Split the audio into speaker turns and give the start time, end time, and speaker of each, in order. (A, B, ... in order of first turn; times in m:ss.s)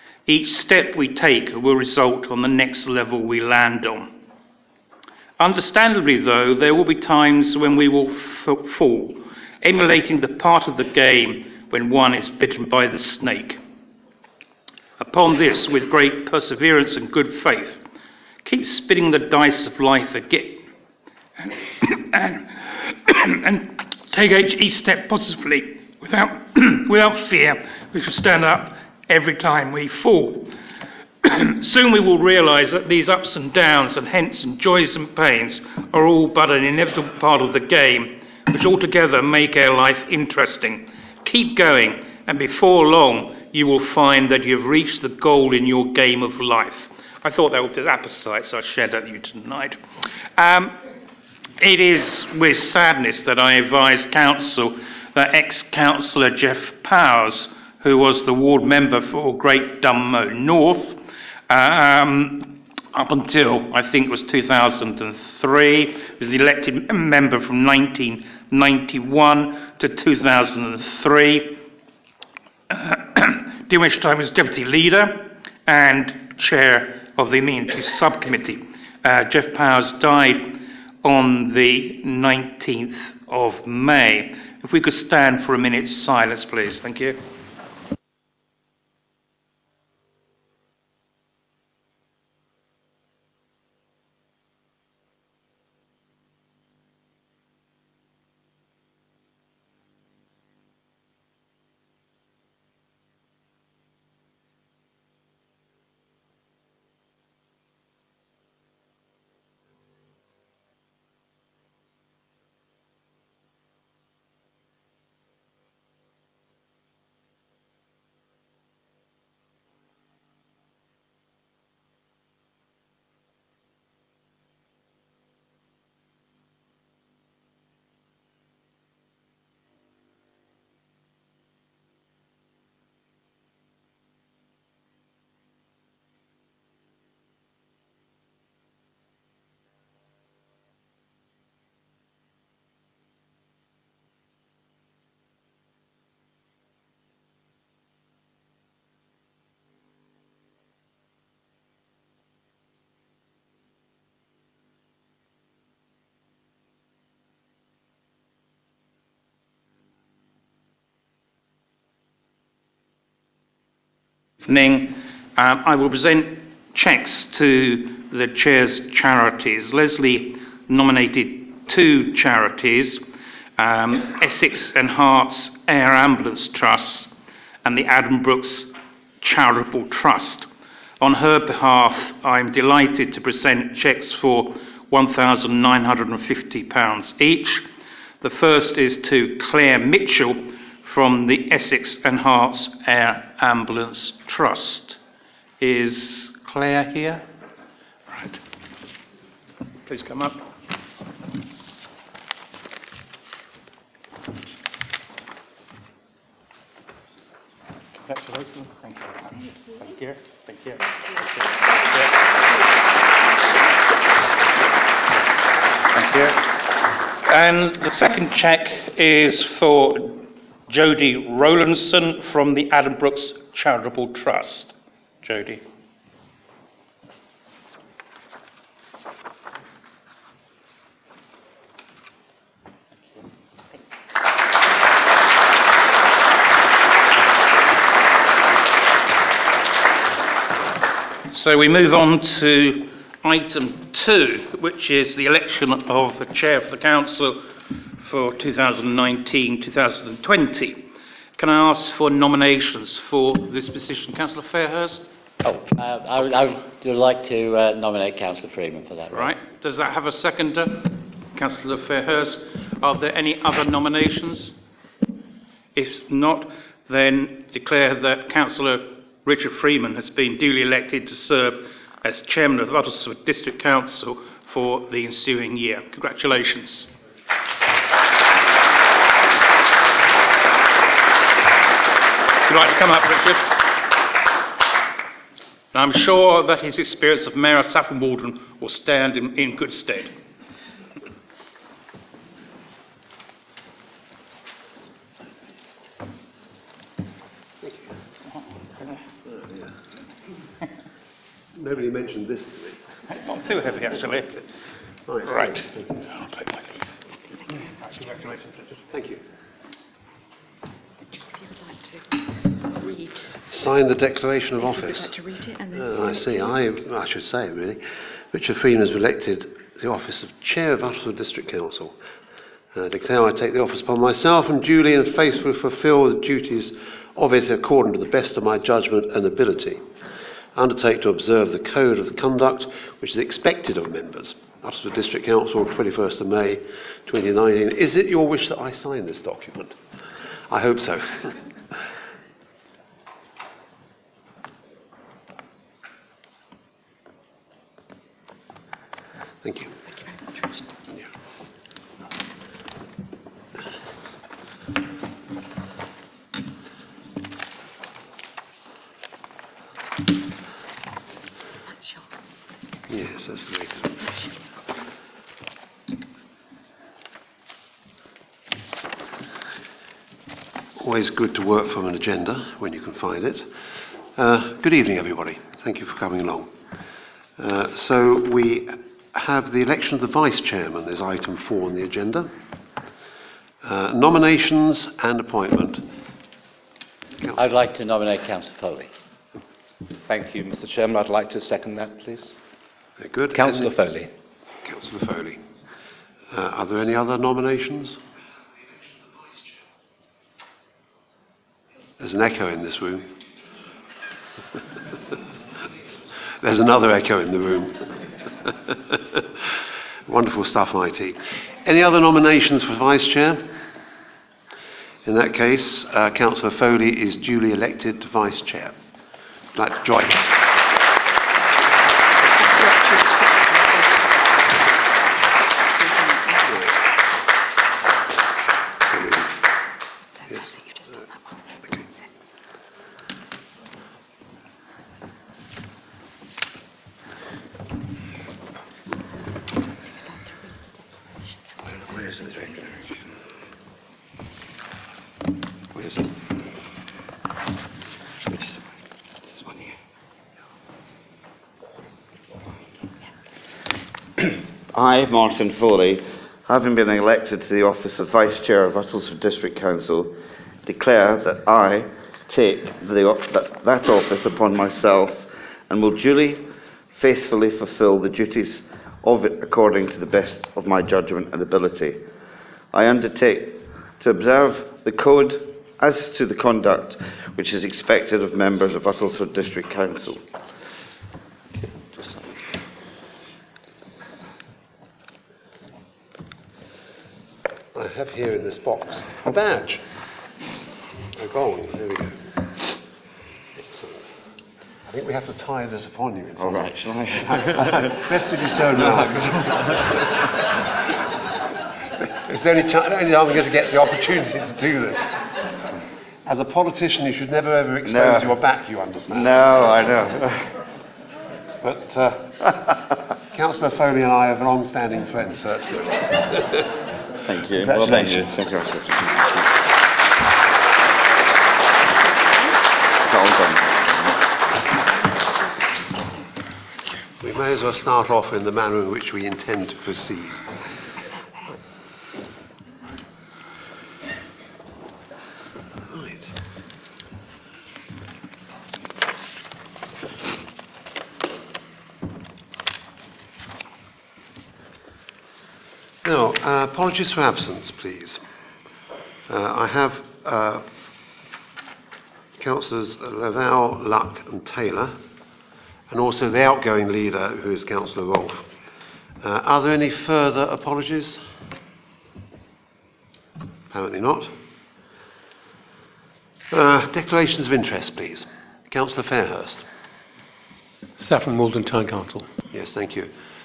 0:00.2-0:04.1 A
0:05.4-0:13.6 A
0:15.0-0:17.8 A
0:18.4-0:20.6 A
0:21.4-0:30.5 A
0:31.2-0:49.8 A
0:50.4-0:50.8 A
0:51.6-1:11.6 A
1:12.7-1:27.2 A
2:44.4-2:53.0 A
2:53.6-2:57.1 A
2:57.6-3:00.5 A
3:01.0-3:07.6 A
3:08.2-3:15.0 A
3:15.6-3:17.2 A
3:18.1-3:18.4 A
3:19.8-3:20.4 A
3:28.0-3:29.3 A
3:29.9-3:30.8 A
3:30.9-3:31.2 B
3:35.9-3:36.6 A
3:37.1-3:45.6 A
4:01.3-4:07.4 A
4:08.0-4:10.8 A
4:11.4-4:15.0 A
4:15.4-4:19.3 C
4:19.1-4:24.5 A
4:25.7-4:36.9 A
4:42.4-4:43.9 A
4:45.7-4:50.1 A
4:57.6-4:57.9 D
5:01.5-5:02.8 D
5:03.1-5:04.3 A
5:05.1-5:06.0 D
5:05.2-5:05.6 A
5:08.9-5:09.2 D
5:11.2-5:13.3 B
5:13.5-5:15.1 D
5:14.6-5:16.5 B
5:15.8-5:17.8 D
5:18.3-5:21.9 D
5:22.7-5:29.8 D
5:30.5-5:39.8 D
5:40.5-5:41.3 D
5:49.4-5:49.7 D
6:01.7-6:02.1 B
6:02.9-6:03.9 D
6:04.0-6:04.4 B
6:10.8-6:13.5 D
6:14.2-6:16.5 D
6:17.4-6:22.3 D
6:23.6-6:25.8 D
6:27.3-6:28.9 C
6:30.1-6:32.4 E
6:33.0-6:33.7 D
6:33.3-6:34.1 E
6:34.6-6:35.4 D
6:36.3-6:38.0 D
6:42.0-6:43.1 D
6:46.4-6:47.9 D
6:48.5-6:49.2 D
6:50.1-6:53.5 D
6:55.0-6:58.7 D
6:59.5-7:00.5 D
7:02.4-7:04.1 B
7:05.8-7:06.4 B
7:08.9-7:09.3 D
7:10.2-7:11.9 B
7:20.0-7:21.8 B
7:34.7-7:52.0 F
7:52.7-8:00.2 F
8:02.0-8:02.3 F
8:07.7-8:09.8 D
8:11.1-8:12.7 D
8:13.6-8:14.0 D
8:14.8-8:20.0 D
8:16.4-8:17.9 F
8:22.0-8:25.4 D
8:26.2-8:29.7 D
8:27.8-8:28.3 F
8:29.1-8:30.4 F
8:31.6-8:36.3 D
8:37.2-8:39.6 F
8:37.7-8:38.2 D
8:43.0-8:44.1 F
8:47.2-8:50.4 D
8:55.9-8:56.2 D
9:06.0-9:08.2 D
9:09.3-9:10.6 D
9:12.4-9:14.9 D
9:15.9-9:18.5 D
9:19.2-9:21.2 D
9:23.7-9:24.3 D
9:26.5-9:29.6 D
9:32.5-9:33.1 D